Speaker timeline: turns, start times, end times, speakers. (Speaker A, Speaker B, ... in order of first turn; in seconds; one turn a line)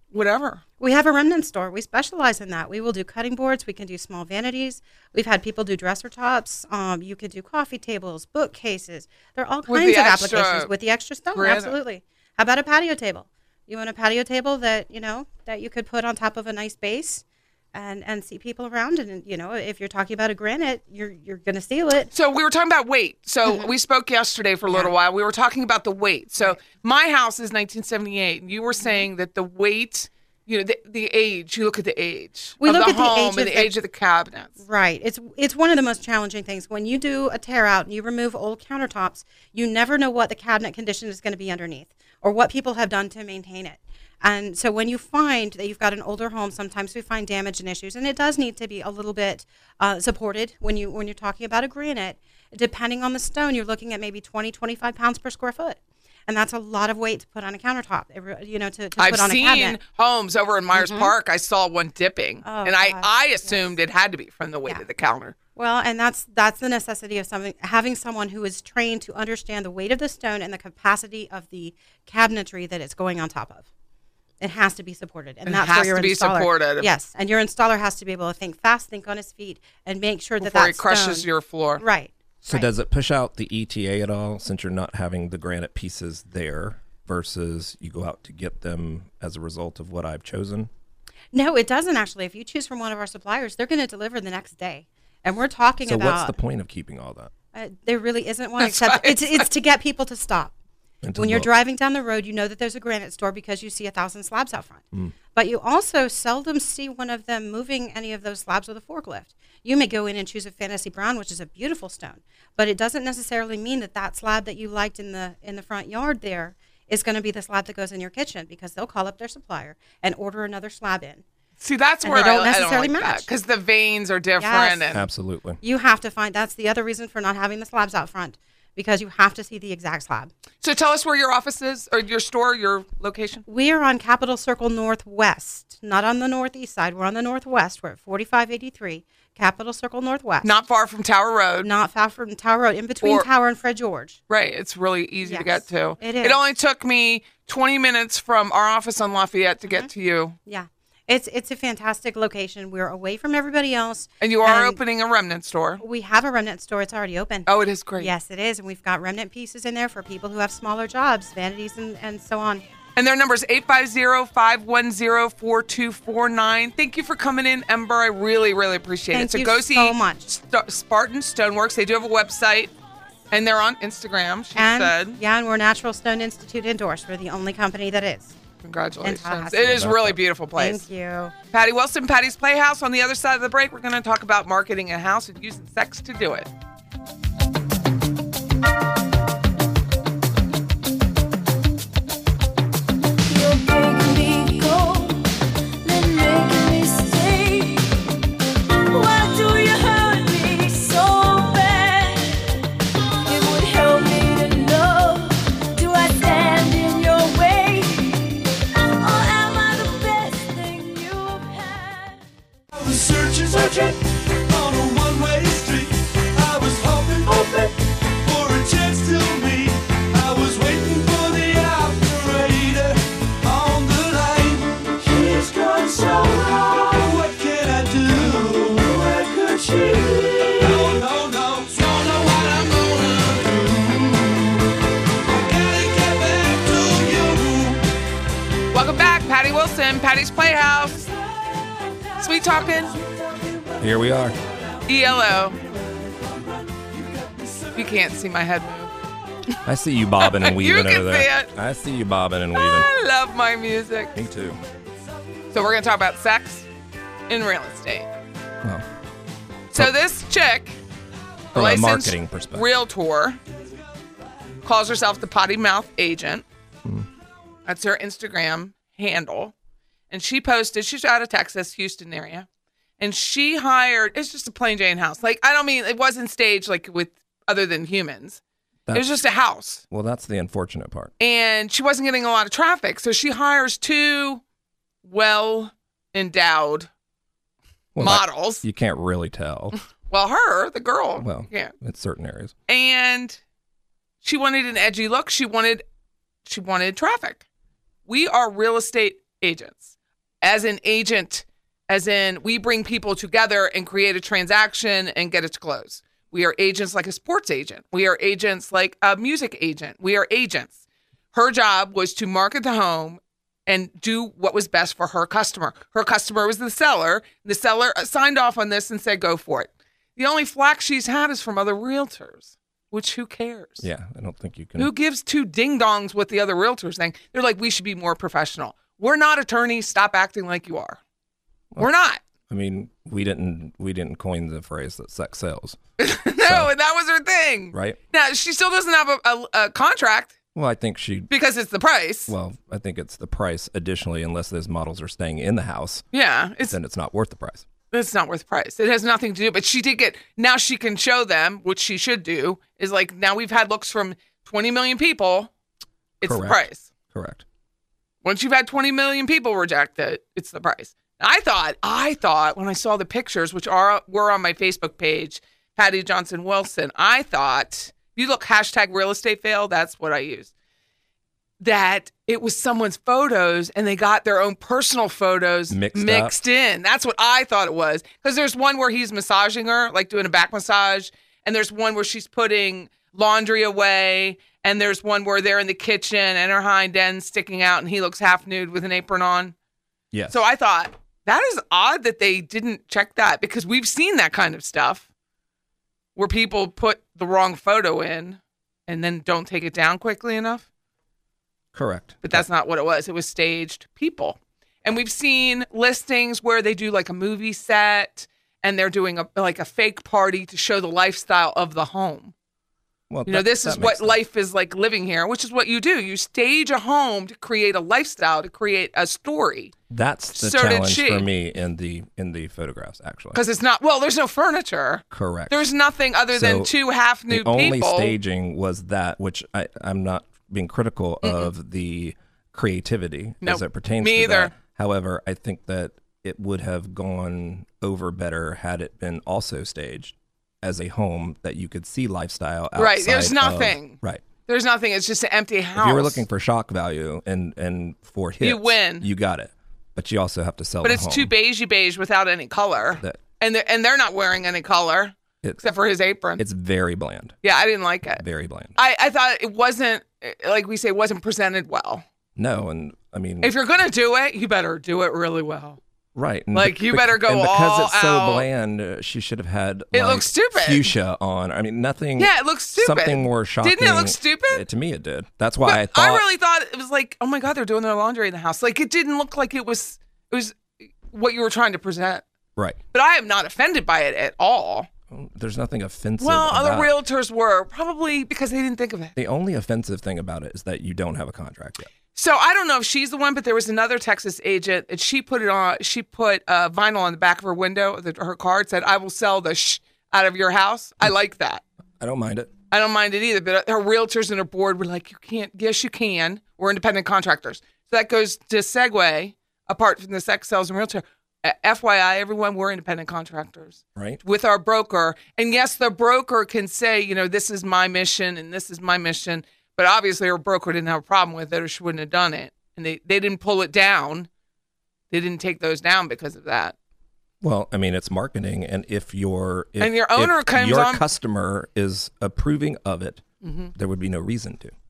Speaker A: 0.1-0.6
Speaker B: 0.8-22.1
Speaker A: 9.7-10.7
Speaker A: 11.3-11.8
Speaker A: 22.1-34.5
Speaker B: 23.4-23.7
Speaker B: 24.7-24.9
Speaker B: 28.8-29.1
Speaker B: 32.6-33.7
Speaker B: 34.6-59.8
Speaker A: 59.0-65.3
Speaker B: 60.8-61.1
Speaker B: 62.4-63.7
Speaker B: 65.5-73.7
Speaker B: 74.4-81.3
Speaker A: 75.5-76.9
Speaker A: 80.4-81.8
Speaker B: 81.8-82.7
Speaker C: 82.4-90.7
Speaker B: 91.3-96.3
Speaker C: 95.8-97.3
Speaker B: 97.5-100.5
Speaker A: 98.6-99.5
Speaker C: 101.0-101.5
Speaker B: 101.1-104.8
Speaker B: 105.3-121.2
Speaker A: 121.6-125.0
Speaker B: 122.0-123.3
Speaker B: 124.4-124.9
Speaker C: 124.9-125.6
Speaker B: 125.6-130.3
Speaker A: 130.6-133.4
Speaker B: 133.5-140.5
Speaker A: 140.4-141.7
Speaker B: 141.6-144.2
Speaker A: 143.0-143.3
Speaker A: 144.3-150.4
Speaker B: 145.2-146.4
Speaker B: 150.4-154.8
Speaker A: 154.2-155.8
Speaker B: 155.8-162.6
Speaker A: 157.5-158.1
Speaker A: 162.9-172.7
Speaker B: 169.1-170.3
Speaker A: 173.3-175.2
Speaker B: 174.5-178.3
Speaker A: 178.6-180.8
Speaker B: 179.0-180.0
Speaker C: 179.7-180.2
Speaker B: 180.6-181.3
Speaker A: 181.5-186.5
Speaker D: 193.3-195.3
Speaker D: 195.8-198.0
Speaker D: 198.9-202.6
Speaker D: 203.3-212.2
Speaker E: 212.7-234.6
Speaker E: 235.3-237.8
Speaker A: 238.7-241.0
Speaker A: 242.2-242.9
Speaker E: 243.0-244.3
Speaker C: 243.8-244.4
Speaker A: 244.9-245.6
Speaker E: 245.5-247.7
Speaker A: 247.8-248.9
Speaker C: 249.6-252.9
Speaker A: 250.2-251.5
Speaker A: 252.5-254.2
Speaker C: 254.1-254.6
Speaker A: 255.5-256.7
Speaker A: 257.3-258.1
Speaker A: 259.7-260.8
Speaker C: 261.5-262.7
Speaker A: 261.5-263.4
Speaker A: 264.6-266.4
Speaker A: 267.6-269.5
Speaker A: 270.1-272.5
Speaker A: 273.0-278.4
Speaker C: 278.9-279.1
Speaker A: 278.9-279.8
Speaker C: 279.9-281.1
Speaker A: 281.2-284.4
Speaker A: 285.0-286.9
Speaker C: 287.9-289.8
Speaker A: 288.0-288.6
Speaker A: 290.1-291.7
Speaker C: 291.2-292.5
Speaker A: 292.7-293.4
Speaker A: 294.2-295.8
Speaker A: 296.4-297.4
Speaker A: 298.1-310.8
Speaker A: 311.3-323.9
Speaker C: 323.8-324.9
Speaker A: 324.8-331.0
Speaker A: 331.8-332.2
Speaker C: 332.5-335.8
Speaker A: 336.0-340.4
Speaker C: 336.4-336.7
Speaker C: 337.7-338.0
Speaker C: 340.5-341.3
Speaker A: 341.3-342.3
Speaker C: 342.3-346.0
Speaker A: 346.1-346.8
Speaker C: 346.7-347.7
Speaker A: 347.9-355.5
Speaker A: 356.2-356.9
Speaker C: 356.2-357.4
Speaker A: 358.2-370.5
Speaker A: 371.6-389.5
Speaker C: 375.7-376.4
Speaker C: 390.1-390.4
Speaker A: 390.3-395.1
Speaker A: 396.1-400.7
Speaker C: 401.7-402.5
Speaker A: 402.2-412.3
Speaker C: 413.1-414.2
Speaker A: 413.2-419.7
Speaker C: 419.9-423.4
Speaker A: 420.4-421.3
Speaker A: 423.3-428.1
Speaker C: 425.1-425.6
Speaker C: 426.3-426.7
Speaker C: 427.3-444.2
Speaker A: 431.2-431.5
Speaker A: 433.4-434.6
Speaker A: 442.8-446.2
Speaker C: 445.8-451.3
Speaker A: 448.4-449.1
Speaker A: 450.8-456.4
Speaker C: 452.9-453.2
Speaker C: 456.4-457.3
Speaker A: 457.4-458.2
Speaker C: 458.2-458.8
Speaker A: 458.8-462.0
Speaker C: 462.4-463.5
Speaker A: 463.4-465.8
Speaker C: 466.1-476.2
Speaker A: 466.5-468.5
Speaker A: 469.9-470.9
Speaker A: 472.2-474.6
Speaker A: 475.6-482.2
Speaker A: 482.9-484.9
Speaker C: 485.1-486.9
Speaker A: 486.2-489.1
Speaker C: 489.1-491.9
Speaker A: 492.1-501.6
Speaker C: 502.0-502.5
Speaker A: 502.7-524.3
Speaker A: 525.1-526.7
Speaker C: 527.4-533.2
Speaker A: 529.8-531.0
Speaker A: 533.4-533.7
Speaker C: 533.7-534.7